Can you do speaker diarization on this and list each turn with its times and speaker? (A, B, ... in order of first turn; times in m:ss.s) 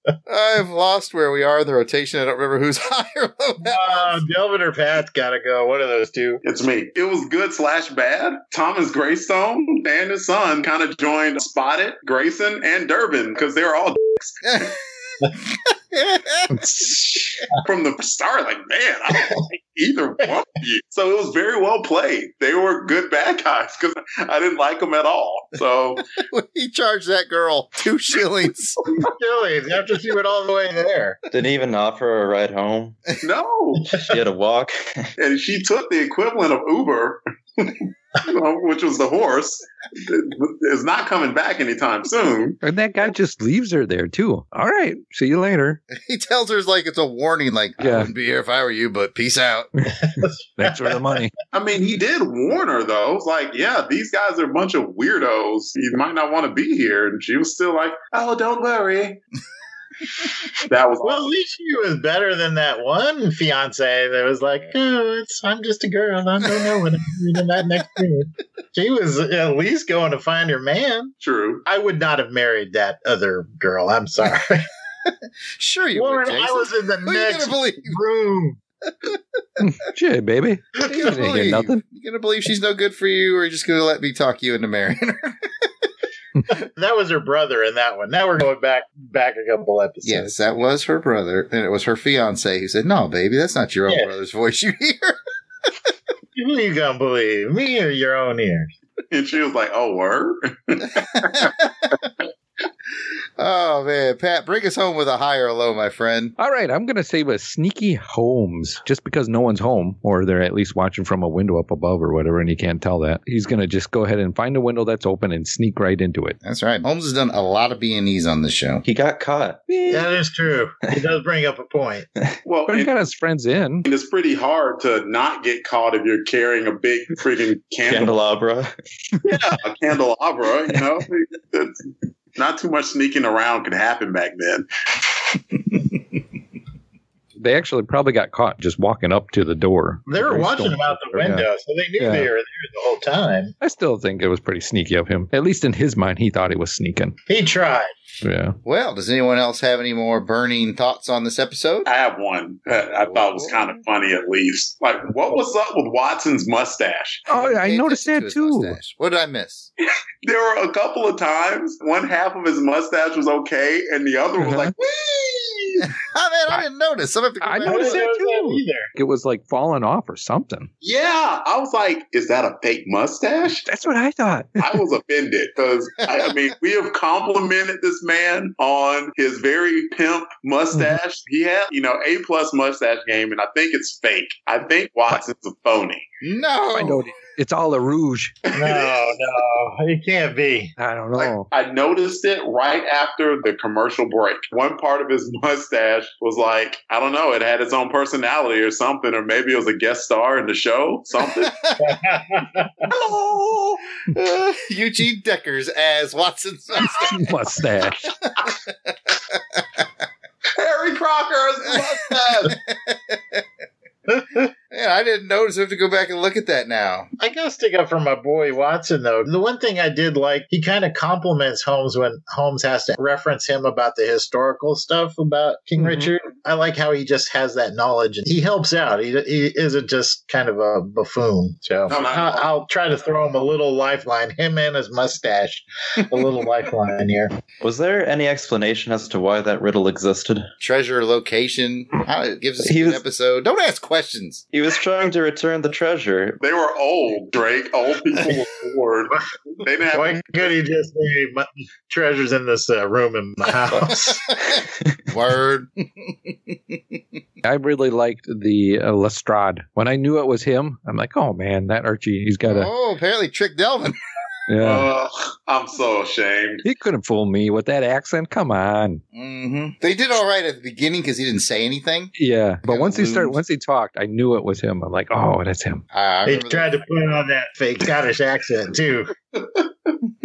0:00.3-0:04.2 A
0:03.6-0:06.4 B
0:06.4-0:14.7 C
0:14.4-0:17.2 A
0:16.5-0:17.4 D
0:17.6-0:26.0 C
0:26.2-0:28.8 A
0:29.0-0:31.2 B
0:31.3-0:33.0 E
0:33.2-0:33.9 C
0:33.9-0:35.1 E
0:35.2-0:42.6 C
0:42.6-0:45.8 D
0:45.9-0:49.7 A
0:47.8-0:48.1 D
0:49.8-0:51.3 D
0:50.1-0:51.1 B
0:51.5-0:59.2 C
1:00.6-1:01.4 C
1:01.0-1:11.1 B
1:11.2-1:11.6 C
1:11.7-1:14.7 B
1:15.0-1:18.0 A
1:16.0-1:18.6 B
1:19.0-1:19.6 A
1:19.6-1:21.8 D
1:20.9-1:25.7 A
1:26.6-1:30.4 B
1:30.0-1:35.2 A
1:36.4-1:38.8 B
1:39.1-1:41.5 C
1:41.2-1:41.9 A
1:43.4-1:46.4 A
1:46.4-1:56.4 D
1:56.4-1:58.8 A
1:58.8-2:00.1 E
1:59.9-2:02.1 B
2:02.5-2:02.9 C
2:02.7-2:03.9 D
2:03.8-2:08.1 C
2:07.8-2:08.7 E
2:09.2-2:14.7 C
2:17.4-2:21.5 D
2:20.1-2:23.5 B
2:22.0-2:22.3 D
2:23.6-2:27.2 D
2:27.3-2:27.9 B
2:28.2-2:28.6 D
2:28.6-2:31.9 A
2:31.8-2:37.3 C
2:33.0-2:33.8 A
2:37.3-2:38.8 D
2:37.3-2:39.7 A
2:40.2-2:45.6 C
2:44.4-2:44.7 D
2:45.8-2:48.1 A
2:47.4-2:50.7 D
2:47.6-2:48.9 B
2:50.8-2:53.7 C
2:53.7-2:54.8 D
2:54.6-3:06.0 C
3:00.7-3:01.0 D
3:06.2-3:07.1 A
3:06.7-3:08.4 D
3:08.5-3:09.1 C
3:08.5-3:10.7 B
3:10.8-3:11.5 D
3:11.2-3:21.5 C
3:21.4-3:21.8 A
3:21.8-3:22.9 B
3:22.9-3:23.8 C
3:24.1-3:27.2 A
3:27.0-3:28.1 D
3:28.1-3:29.6 A
3:30.6-3:32.6 C
3:32.4-3:33.4 A
3:34.1-3:34.4 B
3:34.7-3:37.1 A
3:37.2-3:57.3 B
3:51.9-3:52.5 C
3:57.6-4:00.5 E
4:00.6-4:04.4 A
4:02.6-4:03.0 E
4:04.5-4:06.4 E
4:06.4-4:10.5 C
4:09.9-4:14.2 B
4:13.7-4:17.0 A
4:17.4-4:22.7 D
4:22.4-4:24.0 A
4:24.5-4:24.9 D
4:24.6-4:26.6 C
4:26.6-4:29.0 D
4:29.1-4:32.1 A
4:32.2-4:35.8 D
4:32.6-4:33.4 A
4:35.9-4:36.7 A
4:36.3-4:39.1 B
4:39.4-4:39.9 C